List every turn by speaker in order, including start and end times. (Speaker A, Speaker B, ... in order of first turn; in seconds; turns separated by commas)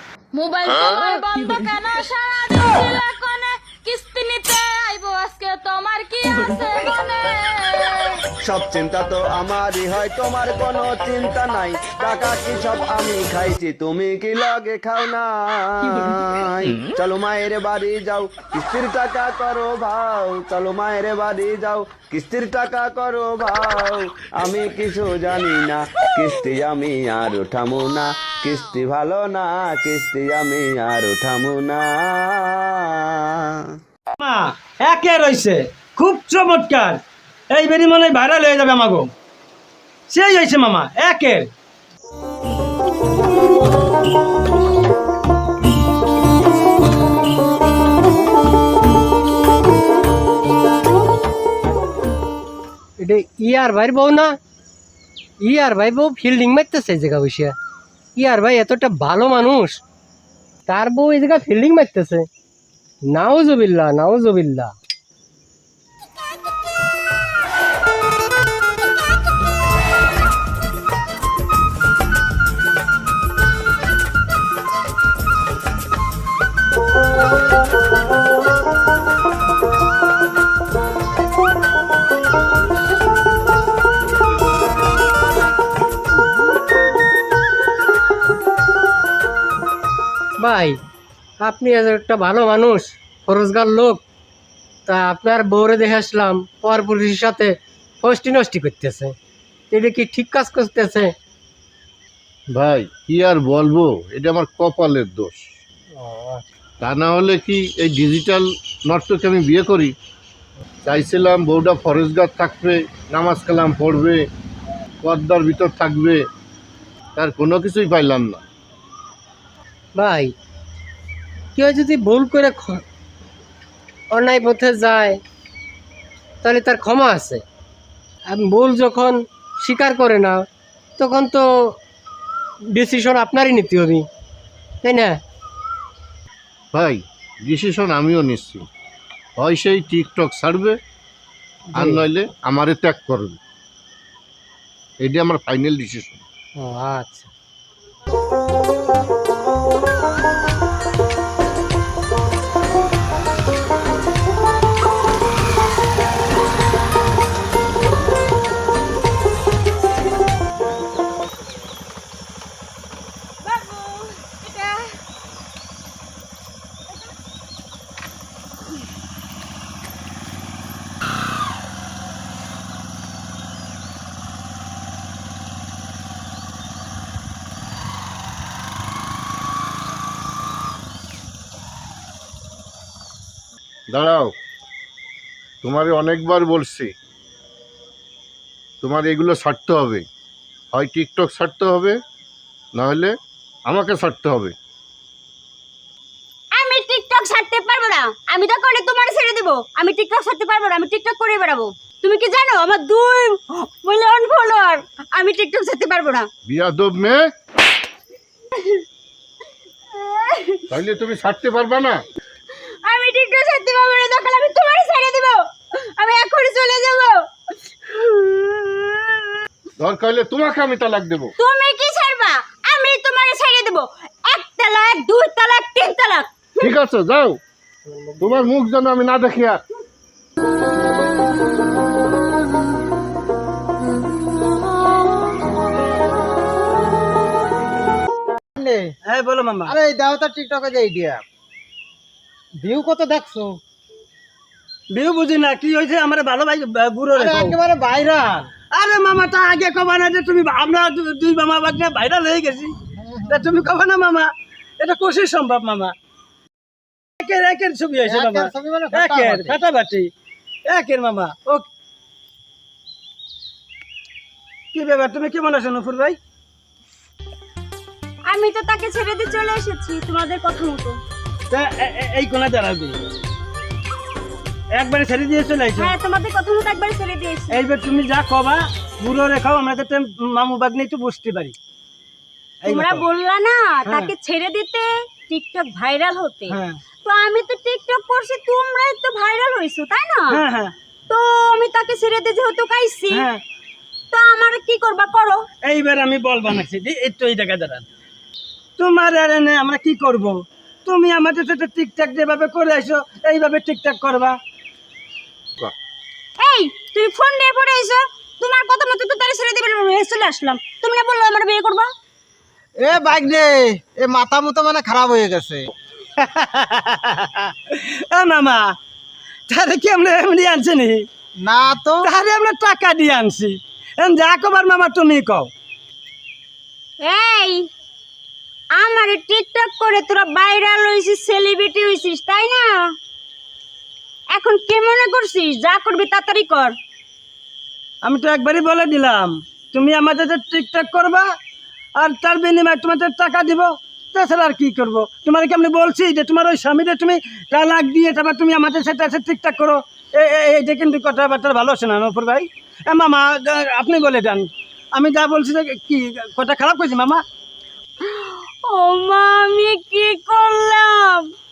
Speaker A: 0.3-8.1, Speaker B: 8.4-33.6, Speaker C: 34.2-37.0, Speaker C: 37.5-39.1, Speaker C: 40.1-41.5, Speaker D: 53.0-54.4, Speaker D: 55.4-57.5, Speaker D: 58.1-59.8, Speaker D: 60.7-62.3, Speaker D: 63.0-64.7, Speaker D: 90.4-90.8, Speaker D: 91.4-94.0, Speaker D: 94.9-99.1, Speaker D: 99.7-101.1, Speaker E: 102.5-105.4, Speaker D: 106.0-106.4, Speaker E: 106.8-109.9, Speaker E: 110.8-114.2, Speaker E: 115.0-116.2, Speaker E: 117.2-118.4, Speaker D: 120.0-120.3, Speaker D: 121.5-122.8, Speaker D: 124.1-125.2, Speaker D: 126.4-127.4, Speaker D: 128.3-130.4, Speaker D: 131.0-131.8, Speaker D: 132.7-134.1, Speaker D: 134.8-135.2, Speaker E: 136.7-138.7, Speaker E: 139.4-140.8, Speaker D: 141.7-142.0, Speaker E: 141.7-143.4, Speaker E: 145.0-146.2, Speaker D: 146.6-147.3, Speaker F: 163.4-164.9, Speaker E: 183.9-184.3, Speaker E: 185.6-186.9, Speaker E: 188.8-190.0, Speaker E: 190.7-192.0, Speaker E: 192.7-193.1, Speaker E: 193.7-194.5, Speaker F: 196.5-206.3, Speaker E: 206.4-207.2, Speaker F: 208.6-208.8, Speaker F: 209.9-210.6, Speaker E: 210.7-212.0, Speaker F: 212.8-217.2, Speaker F: 217.8-219.3, Speaker E: 219.8-221.3, Speaker F: 221.4-226.7, Speaker E: 226.6-227.4, Speaker D: 227.9-228.4, Speaker E: 228.2-229.6, Speaker G: 238.6-238.9, Speaker C: 239.1-239.8, Speaker G: 239.7-241.2, Speaker G: 242.6-243.6, Speaker C: 244.9-247.6, Speaker G: 247.2-248.5, Speaker C: 248.7-252.7, Speaker G: 253.0-253.5, Speaker C: 253.3-255.9, Speaker C: 257.2-260.1, Speaker G: 258.0-259.6, Speaker C: 260.7-261.6, Speaker C: 264.7-266.2, Speaker F: 268.3-271.0, Speaker C: 271.5-273.0, Speaker C: 274.8-275.9, Speaker F: 275.8-277.6, Speaker C: 277.5-281.5, Speaker C: 282.6-283.0, Speaker F: 282.7-290.4, Speaker C: 283.9-284.1, Speaker C: 286.5-286.8, Speaker C: 290.3-290.7, Speaker F: 291.1-293.2, Speaker C: 293.1-293.4, Speaker F: 294.1-295.4, Speaker C: 295.6-297.8, Speaker C: 298.8-304.4, Speaker F: 306.4-311.9, Speaker G: 312.8-315.6, Speaker C: 316.2-318.7, Speaker C: 319.5-321.0, Speaker G: 321.4-322.1, Speaker C: 322.0-325.5, Speaker F: 327.0-327.7, Speaker F: 328.7-332.9, Speaker F: 334.3-336.7, Speaker C: 338.0-341.2, Speaker C: 342.0-357.2, Speaker F: 358.0-361.3